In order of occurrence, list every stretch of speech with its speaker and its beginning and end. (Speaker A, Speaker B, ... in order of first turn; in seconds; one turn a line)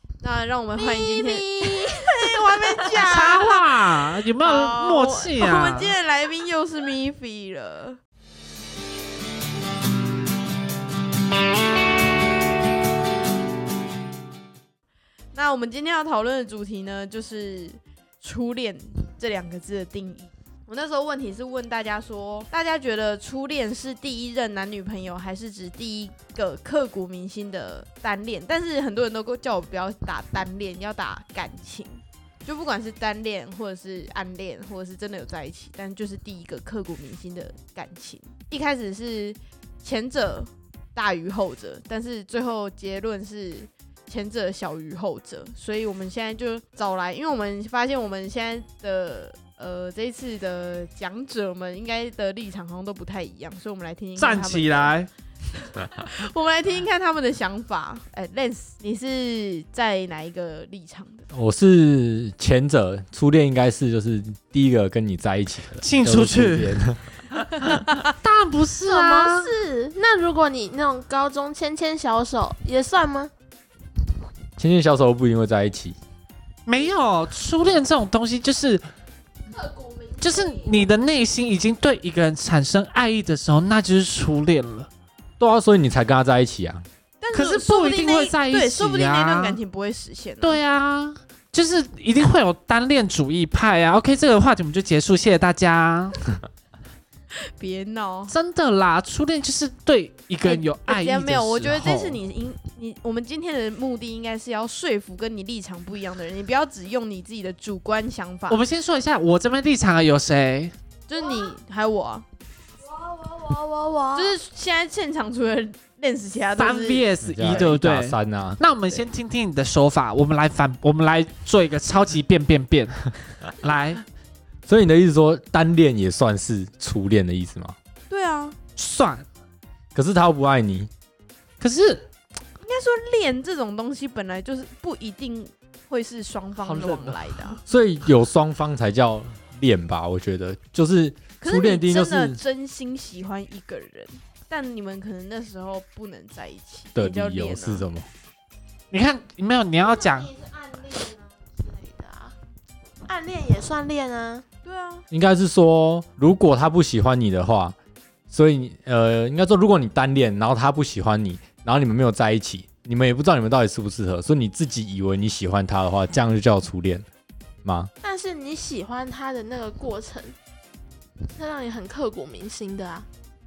Speaker A: 0.2-8.0
Speaker B: 0.7-1.9
Speaker C: 2.8-5.9
Speaker A: 15.3-54.9
Speaker C: 54.2-55.1
Speaker A: 55.5-61.2
Speaker D: 61.3-67.9
Speaker C: 65.8-66.8
Speaker C: 68.0-69.5
Speaker B: 68.8-73.3
Speaker D: 74.6-76.0
Speaker C: 76.7-78.8
Speaker B: 79.6-80.9
Speaker C: 80.2-84.9
Speaker D: 85.4-86.8
Speaker A: 87.2-90.6
Speaker C: 87.3-89.6
Speaker C: 90.4-96.2
Speaker A: 97.5-98.3
Speaker C: 98.3-102.2
Speaker A: 100.4-108.6
Speaker C: 108.5-110.7
Speaker A: 111.1-112.2
Speaker B: 112.8-114.3
Speaker A: 114.1-117.7
Speaker C: 116.5-124.0
Speaker D: 117.2-119.0
Speaker D: 124.7-127.7
Speaker A: 128.1-128.6
Speaker C: 128.8-129.2
Speaker D: 129.9-130.9
Speaker C: 131.6-132.0
Speaker A: 132.6-137.6
Speaker D: 137.7-142.4
Speaker A: 141.4-147.9
Speaker D: 146.9-148.1
Speaker C: 148.9-150.3
Speaker B: 149.8-152.3
Speaker B: 153.1-154.4
Speaker A: 154.6-155.0
Speaker D: 155.1-157.7
Speaker D: 158.3-167.0
Speaker D: 167.6-167.9
Speaker B: 168.0-170.4
Speaker B: 171.3-173.1